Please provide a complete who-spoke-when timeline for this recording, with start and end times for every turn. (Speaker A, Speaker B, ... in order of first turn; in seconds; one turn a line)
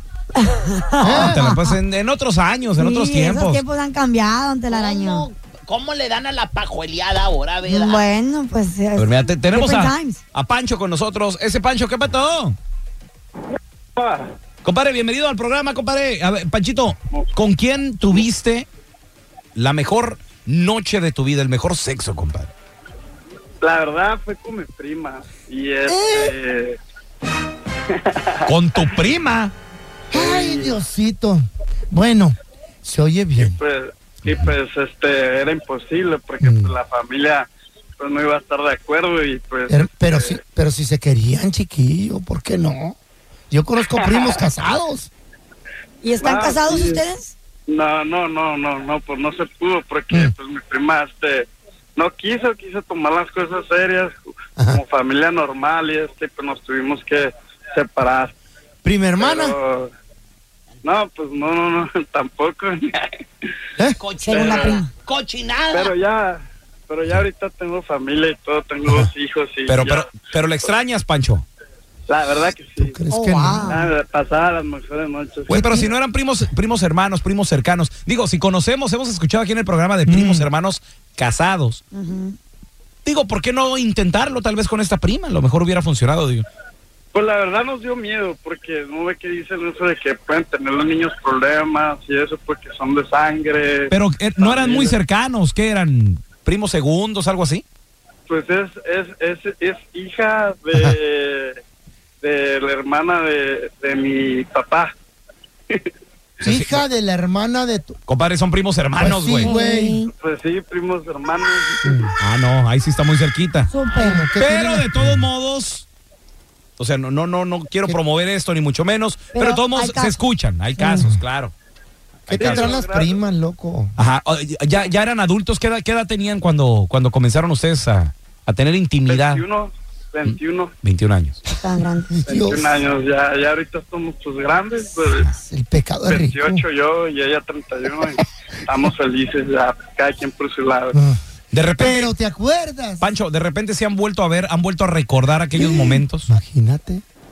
Speaker A: 0.5-1.8
Speaker B: 1.0-1.5
Speaker C: 1.2-3.6
Speaker A: 2.8-5.2
Speaker D: 4.7-8.1
Speaker A: 7.6-10.2
Speaker C: 9.0-12.6
Speaker E: 14.0-14.3
Speaker C: 14.6-18.7
Speaker C: 19.6-22.5
Speaker E: 23.6-26.8
Speaker B: 25.9-26.4
Speaker C: 28.5-29.5
Speaker B: 30.1-33.6
Speaker E: 30.1-30.8
Speaker E: 33.4-37.5
Speaker C: 34.3-34.5
Speaker B: 36.4-36.7
Speaker E: 38.0-40.4
Speaker B: 39.7-43.0
Speaker B: 43.5-45.1
Speaker A: 46.0-47.3
Speaker E: 46.2-47.0
Speaker E: 47.7-58.3
Speaker B: 58.8-59.5
Speaker E: 59.2-59.9
Speaker E: 60.8-63.1
Speaker D: 64.0-66.0
Speaker A: 64.2-64.9
Speaker E: 64.3-64.7
Speaker E: 65.7-70.1
Speaker C: 69.7-71.5
Speaker E: 72.1-73.1
Speaker B: 72.8-73.7
Speaker A: 73.1-73.9
Speaker E: 73.7-75.9
Speaker C: 75.5-81.8
Speaker B: 80.1-80.5
Speaker A: 81.9-82.4
Speaker C: 83.0-86.5
Speaker E: 87.1-95.0
Speaker C: 93.9-97.6
Speaker E: 98.3-101.6
Speaker E: 102.2-104.9
Speaker B: 106.4-108.0
Speaker C: 106.4-106.8
Speaker C: 108.1-109.5
Speaker B: 109.0-110.0
Speaker A: 109.4-110.1
Speaker E: 110.2-112.0
Speaker B: 111.8-112.1
Speaker C: 112.2-113.7
Speaker A: 113.7-114.3
Speaker B: 113.9-115.3
Speaker C: 114.4-115.9
Speaker C: 116.8-121.5
Speaker A: 119.3-120.2
Speaker B: 120.8-121.2
Speaker C: 122.3-122.8
Speaker B: 122.3-123.9
Speaker E: 122.4-123.2
Speaker C: 124.0-129.5
Speaker E: 129.1-130.7
Speaker C: 130.2-131.4
Speaker A: 131.5-132.2
Speaker B: 132.2-132.7
Speaker E: 132.2-135.3
Speaker B: 135.3-136.6
Speaker E: 136.1-140.9
Speaker B: 140.9-141.2
Speaker C: 141.5-142.1
Speaker B: 141.8-143.1
Speaker C: 143.0-146.3
Speaker B: 145.5-147.0